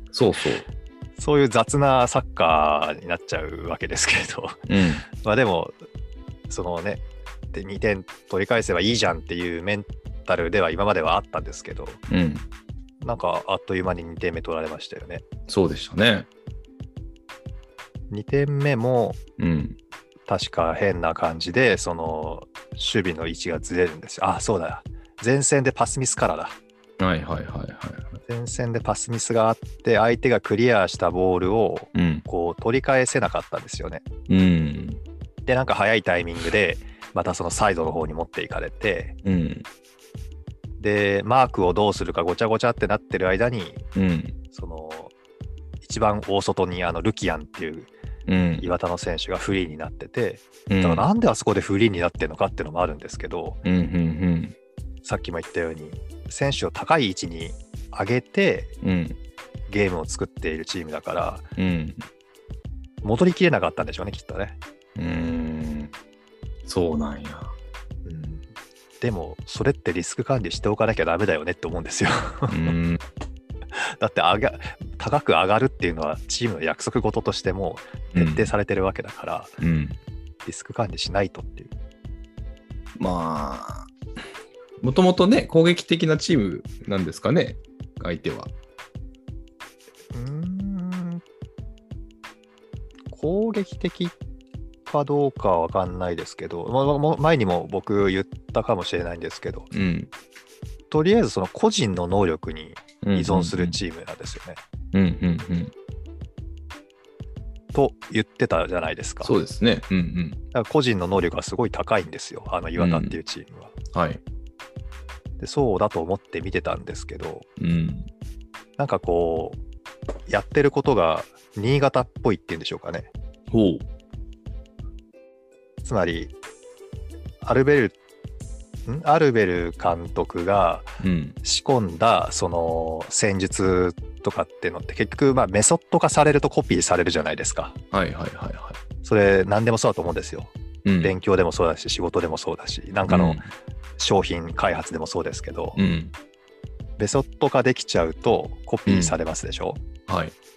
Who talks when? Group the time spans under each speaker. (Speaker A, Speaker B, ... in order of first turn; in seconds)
Speaker A: 0.1-0.7, 4.7-5.0, 12.1-12.4, 15.5-16.3, 19.4-19.8, 27.0-28.2, 31.9-32.2, 34.3-35.0, 39.2-39.7, 43.9-44.4, 48.3-48.7, 50.7-51.0, 53.6-54.5, 58.8-59.2, 61.6-62.1, 65.0-65.9, 66.7-67.5, 72.5-73.0, 78.1-78.5, 79.6-80.0, 83.0-83.9, 84.8-88.5, 99.7-100.1, 103.0-103.8, 104.9-105.7, 109.2-110.4, 112.8-113.2, 113.9-114.2, 117.6-118.1, 123.5-123.8, 131.0-131.4, 137.9-138.8, 140.8-141.2, 143.1-143.5, 145.8-146.1, 148.9-149.2, 150.1-150.3
Speaker B: 1.2-4.6, 5.2-5.8, 6.5-12.0, 13.0-15.2, 18.1-19.2, 20.3-26.6, 28.3-34.0, 35.5-39.1, 40.8-43.8, 44.5-45.1, 45.8-47.9, 48.6-53.6, 55.0-58.7, 59.7-61.5, 63.0-64.6, 68.0-68.5, 69.0-72.7, 73.8-79.6, 80.4-81.7, 90.1-91.2, 93.1-94.2, 94.8-99.7, 100.9-104.6, 107.7-109.3, 110.5-113.7, 115.4-117.5, 118.8-119.6, 120.3-123.1, 125.8-126.3, 127.4-127.9, 128.9-137.7, 139.0-140.5, 141.0-143.4, 144.0-145.8, 147.0-149.8